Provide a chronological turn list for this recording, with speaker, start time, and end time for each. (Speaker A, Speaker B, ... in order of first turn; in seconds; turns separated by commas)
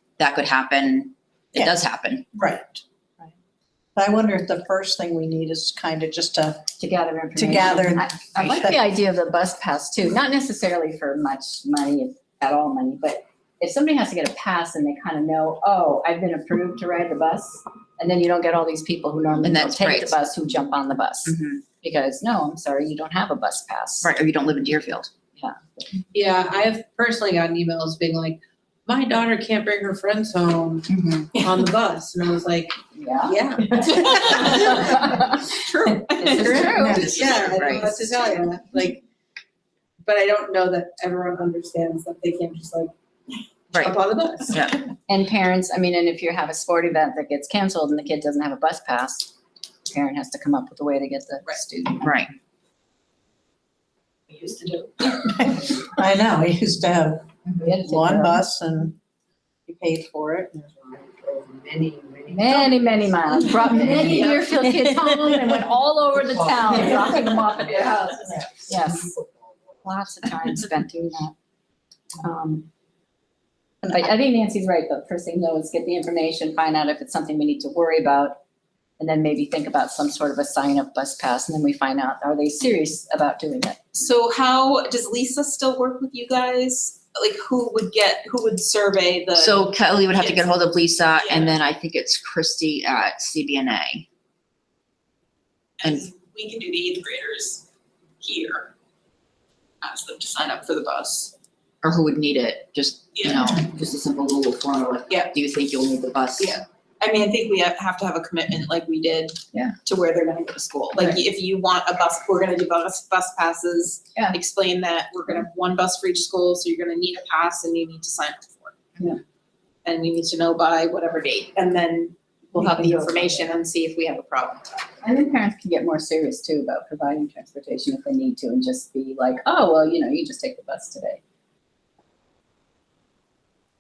Speaker A: 0.2-2.3, Speaker B: 2.3-2.8, Speaker B: 4.0-6.7, Speaker C: 6.8-24.1, Speaker B: 7.4-8.8, Speaker A: 19.4-20.2, Speaker A: 21.3-21.6, Speaker A: 24.0-25.1, Speaker C: 25.4-25.8, Speaker D: 26.1-32.8, Speaker A: 30.9-31.4, Speaker C: 32.9-35.5, Speaker D: 33.3-35.5, Speaker E: 33.9-37.5, Speaker C: 36.1-37.2, Speaker D: 36.1-39.0, Speaker B: 36.3-37.5, Speaker A: 37.5-38.0, Speaker D: 40.0-42.9, Speaker A: 43.7-44.9, Speaker D: 43.7-44.8, Speaker C: 45.1-49.3, Speaker C: 49.9-52.1, Speaker A: 52.0-52.3, Speaker B: 55.1-59.0, Speaker C: 57.6-58.4, Speaker B: 59.7-60.6, Speaker F: 60.7-64.4, Speaker C: 62.3-69.1, Speaker B: 64.6-65.5, Speaker F: 66.1-69.5, Speaker C: 69.8-71.3, Speaker C: 72.2-72.7, Speaker C: 73.9-78.4, Speaker C: 79.0-84.0, Speaker E: 84.0-91.5, Speaker A: 89.4-94.1, Speaker E: 95.8-97.7, Speaker E: 98.2-98.7, Speaker E: 99.8-101.3, Speaker A: 101.8-106.6, Speaker E: 103.2-103.5, Speaker E: 107.0-118.8, Speaker E: 119.8-124.8, Speaker C: 122.8-123.2, Speaker C: 125.0-131.2